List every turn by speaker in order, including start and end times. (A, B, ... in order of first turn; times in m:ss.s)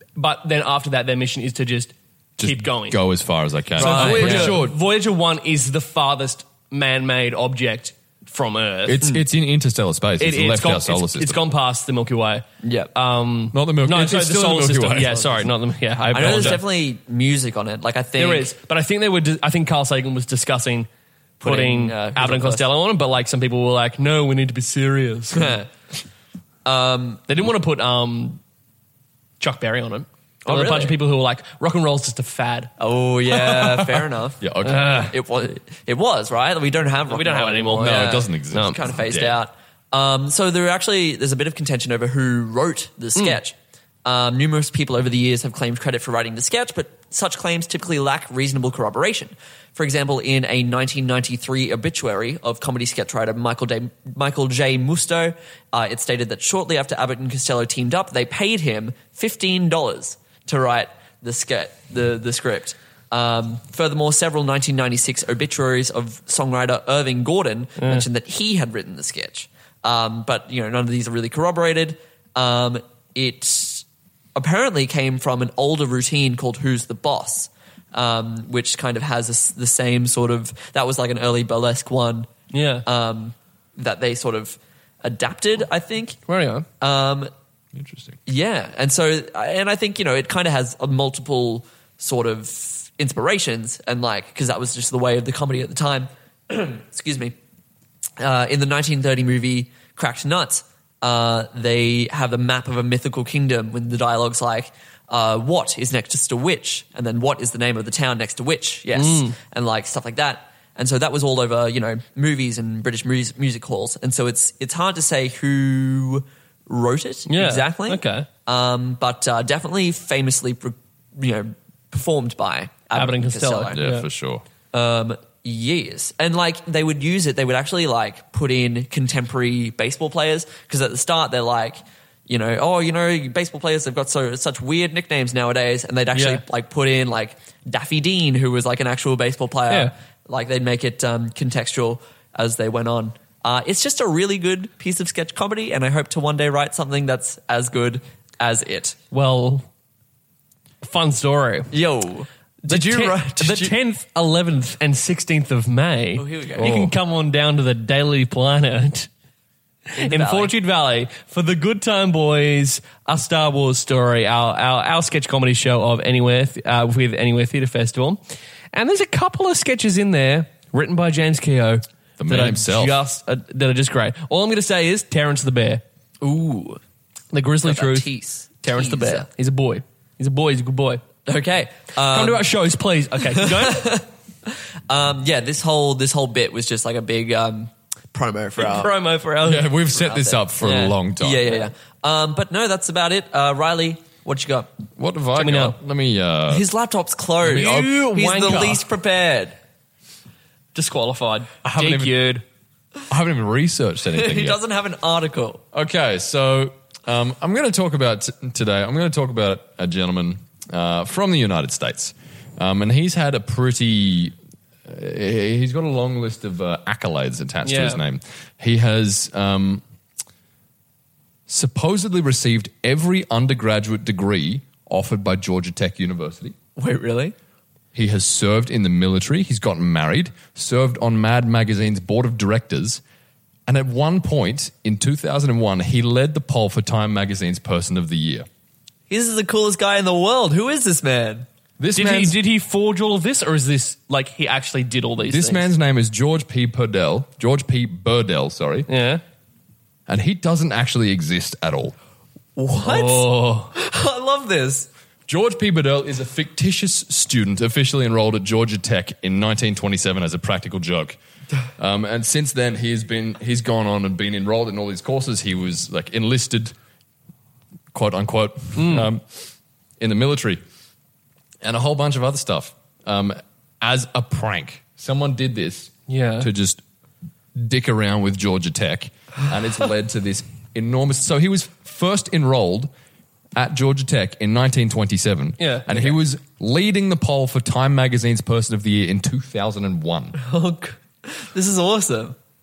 0:00.2-0:03.0 A
0:02.4-0:04.8 B
0:03.8-0:04.6 C
0:03.8-0:09.0 A
0:08.8-0:11.4 B
0:10.2-0:16.6 A
0:12.6-0:12.9 C
0:13.5-0:15.5 B
0:16.0-0:16.6 B
0:16.1-0:18.5 C
0:18.2-0:20.9 A
0:21.4-0:22.7 C
0:21.4-0:25.6 A
0:25.3-0:25.7 C
0:26.6-0:27.2 C
0:27.3-0:28.4 A
0:29.4-0:32.7 A
0:30.4-0:31.0 C
0:32.8-0:34.4 C
0:33.3-0:35.1 B
0:34.6-0:35.1 A
0:35.1-1:13.8 C
0:37.1-0:38.8 A
0:37.8-0:39.4 B
1:07.8-1:08.0 A
1:14.4-1:22.3 C
1:22.5-1:22.8 A
1:22.8-1:26.2 C
1:26.3-1:26.6 A
1:26.8-1:27.3 C
1:27.7-1:28.2 B
1:28.2-1:37.3 C
1:38.2-2:03.8 C
1:48.9-1:49.4 A
1:57.3-1:58.3 A
2:02.9-2:04.0 A
2:03.7-2:04.4 B
2:04.7-2:29.0 C
2:16.1-2:16.4 A
2:29.1-2:29.6 A
2:30.8-2:31.7 A
2:31.7-2:33.7 C
2:32.7-2:39.1 A
2:36.2-2:36.7 C
2:36.6-2:36.9 B
2:40.0-2:40.5 C
2:40.0-2:48.2 A
2:48.7-2:55.8 A
2:52.2-2:53.0 B
2:56.2-2:56.8 C
2:57.3-2:58.1 A
2:57.6-2:59.3 C
2:58.6-3:01.0 A
3:01.2-3:02.4 C
3:02.1-3:03.9 A
3:03.4-3:08.9 C
3:08.6-3:09.7 A
3:09.4-3:11.5 B
3:09.9-3:14.7 C
3:15.0-3:16.6 B
3:15.4-3:15.8 A
3:16.5-3:19.6 C
3:17.4-3:17.9 B
3:17.5-3:18.8 A
3:20.7-3:22.4 A
3:21.6-3:22.2 B
3:23.1-3:24.6 B
3:24.1-3:25.6 C
3:25.7-3:34.3 B
3:34.8-3:39.8 B
3:37.6-3:38.0 A
3:41.5-3:46.6 B
3:46.8-3:47.3 C
3:47.9-3:53.0 B
3:53.7-3:58.5 B
3:59.1-4:01.4 C
4:01.8-4:02.4 B
4:01.9-4:05.7 A
4:05.2-4:08.9 B
4:08.9-4:09.2 A
4:10.1-4:11.9 B
4:12.6-4:14.9 C
4:12.8-4:13.7 A
4:15.3-4:21.2 B
4:21.8-4:26.7 B
4:27.9-4:29.4 B
4:28.8-4:29.1 A
4:30.0-4:30.6 B
4:31.6-4:36.8 B
4:36.1-4:36.5 A
4:37.5-4:42.9 B
4:43.5-4:50.4 B
4:45.6-4:46.1 A
4:50.4-4:52.4 C